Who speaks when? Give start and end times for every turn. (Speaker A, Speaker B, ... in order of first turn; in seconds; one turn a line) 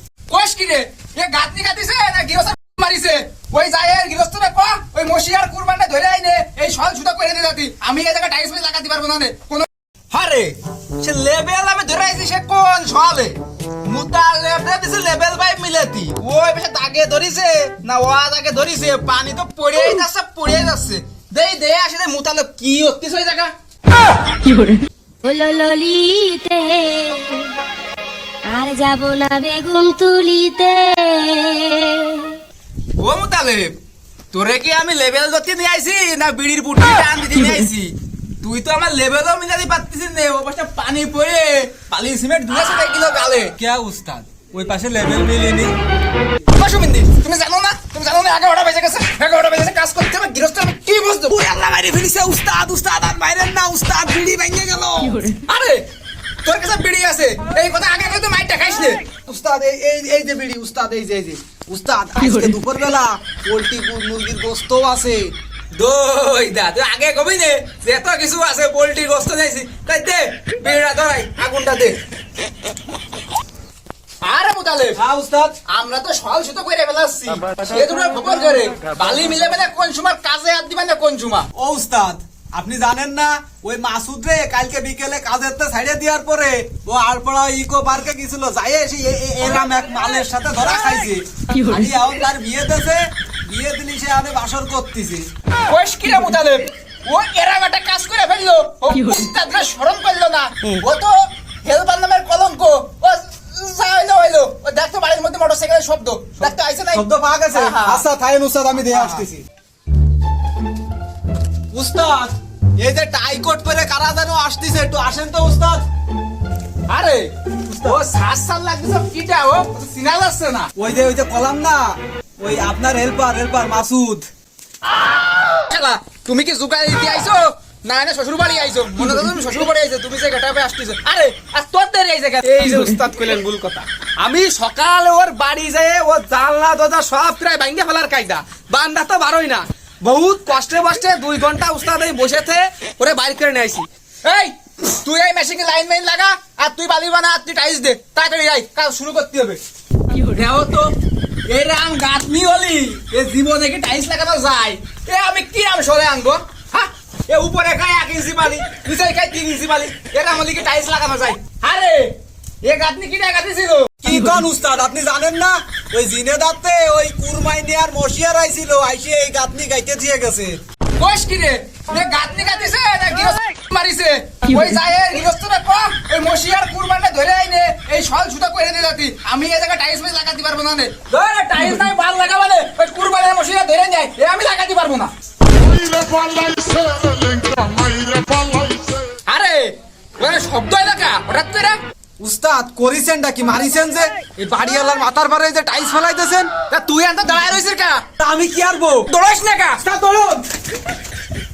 Speaker A: 0.3-23.5
Speaker B: 24.5-27.6
Speaker B: 28.4-32.4
Speaker A: 33.0-33.8
Speaker A: 34.3-43.5
Speaker C: 43.6-45.7
Speaker A: 46.5-52.2
Speaker C: 51.9-55.3
Speaker A: 55.3-55.9
Speaker A: 56.4-59.0
Speaker C: 59.2-65.3
Speaker A: 65.7-72.0
Speaker A: 74.2-75.0
Speaker C: 75.0-75.5
Speaker A: 75.7-81.5
Speaker C: 81.5-95.3
Speaker A: 95.7-108.0
Speaker C: 106.9-109.4
Speaker A: 108.9-109.2
Speaker C: 111.7-115.8
Speaker A: 116.9-120.7
Speaker C: 117.7-118.0
Speaker C: 120.8-124.3
Speaker A: 125.6-149.6
Speaker A: 150.1-150.9
Speaker A: 151.5-164.0
Speaker C: 164.0-170.6
Speaker A: 171.0-185.1
Speaker A: 189.3-191.8
Speaker C: 192.2-196.5
Speaker A: 196.7-198.0
Speaker C: 198.2-199.1
Speaker A: 199.1-199.9
Speaker C: 199.9-200.4